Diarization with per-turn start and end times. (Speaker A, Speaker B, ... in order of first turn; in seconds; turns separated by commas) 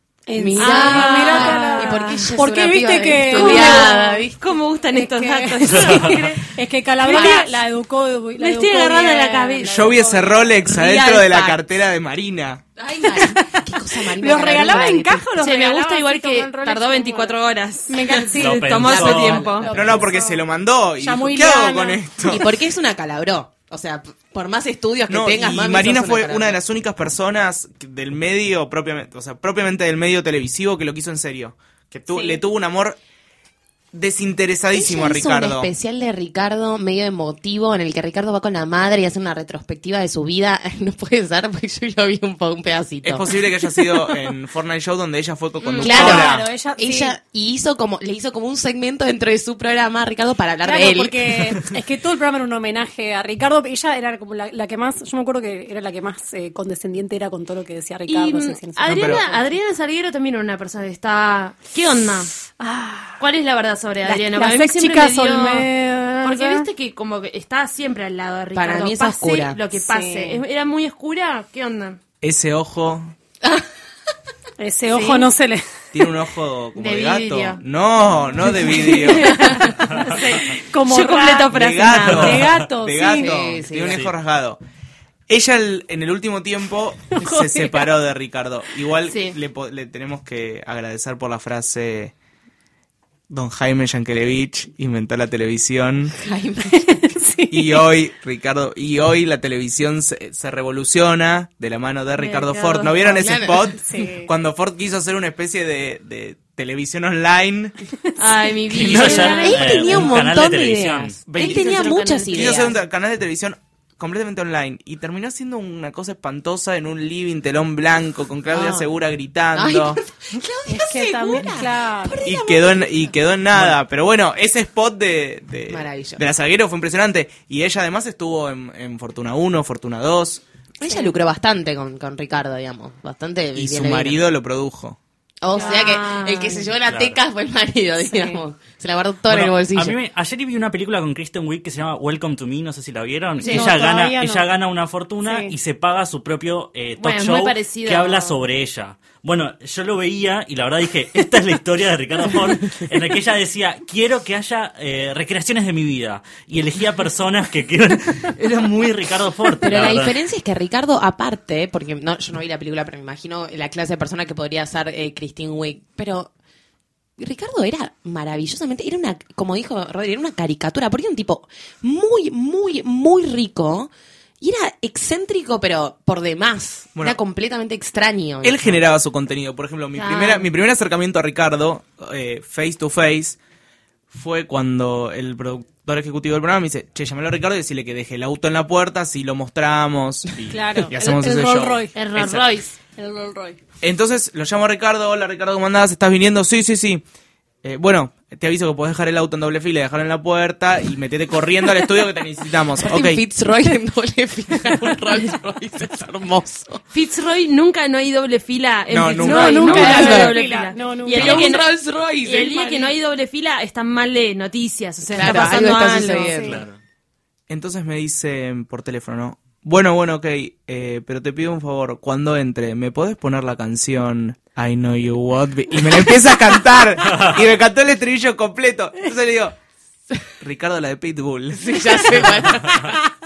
Speaker A: 0.3-4.2, Speaker B: 0.3-4.3, Speaker C: 0.6-2.3, Speaker C: 3.3-6.4, Speaker A: 4.9-10.6, Speaker D: 5.7-6.1, Speaker C: 7.0-7.5, Speaker B: 7.1-7.4, Speaker C: 8.4-9.9, Speaker E: 9.7-12.6, Speaker C: 10.6-11.6, Speaker B: 12.8-15.2, Speaker A: 13.0-20.4, Speaker C: 15.4-19.7, Speaker D: 18.4-19.6, Speaker B: 18.9-20.1, Speaker E: 19.7-22.5, Speaker A: 21.0-22.1, Speaker B: 22.2-26.6, Speaker E: 25.1-33.0, Speaker A: 32.1-32.4, Speaker E: 33.9-35.7, Speaker B: 34.7-43.4, Speaker E: 43.0-46.5, Speaker A: 45.6-47.1, Speaker B: 45.8-51.6, Speaker A: 50.6-59.4, Speaker C: 58.1-62.3, Speaker E: 58.9-59.2, Speaker A: 62.6-63.2, Speaker C: 63.2-65.7, Speaker A: 64.0-66.7, Speaker C: 66.2-72.0, Speaker B: 68.5-69.6, Speaker A: 69.8-70.4, Speaker E: 72.2-73.1, Speaker A: 74.6-75.6, Speaker C: 74.9-75.3, Speaker E: 75.9-79.4, Speaker C: 76.8-77.6, Speaker C: 78.7-82.4, Speaker B: 79.3-79.6, Speaker A: 80.0-81.5, Speaker E: 81.5-84.6, Speaker A: 82.0-83.3, Speaker B: 83.2-84.0, Speaker E: 85.3-92.1, Speaker A: 87.1-87.9, Speaker C: 89.1-89.3, Speaker E: 93.3-96.1, Speaker B: 96.2-96.8, Speaker A: 96.7-97.8, Speaker E: 97.5-107.7, Speaker C: 102.1-103.0, Speaker B: 103.0-103.8, Speaker A: 103.8-104.3, Speaker C: 108.2-110.0, Speaker D: 108.7-111.2, Speaker E: 108.8-109.3, Speaker B: 109.1-112.8, Speaker E: 111.3-120.0, Speaker C: 111.3-112.7, Speaker B: 118.5-118.9, Speaker B: 119.5-123.2, Speaker A: 120.7-122.2, Speaker E: 122.2-130.4, Speaker B: 125.7-126.2, Speaker B: 130.8-134.2, Speaker A: 130.8-131.1, Speaker E: 133.5-135.0, Speaker B: 135.4-140.0, Speaker C: 135.5-136.6, Speaker A: 135.5-135.8, Speaker D: 136.8-137.2, Speaker A: 138.1-138.4, Speaker D: 139.2-160.2, Speaker C: 143.4-143.7, Speaker A: 143.4-144.4, Speaker A: 145.2-145.5, Speaker C: 147.0-148.4, Speaker B: 159.6-166.3, Speaker B: 167.2-178.8, Speaker E: 178.4-183.4, Speaker C: 179.9-180.5, Speaker E: 184.1-192.5, Speaker A: 190.5-191.9, Speaker C: 191.9-192.7, Speaker A: 192.9-193.6, Speaker E: 193.8-197.0, Speaker E: 197.6-203.2, Speaker B: 202.8-206.8, Speaker C: 206.9-216.3, Speaker E: 208.9-209.9, Speaker A: 209.2-211.6, Speaker B: 209.6-210.4, Speaker B: 211.1-212.9, Speaker B: 215.1-216.6, Speaker A: 216.2-216.6, Speaker D: 216.4-216.8, Speaker E: 217.5-229.5, Speaker E: 230.4-232.4, Speaker B: 231.5-233.0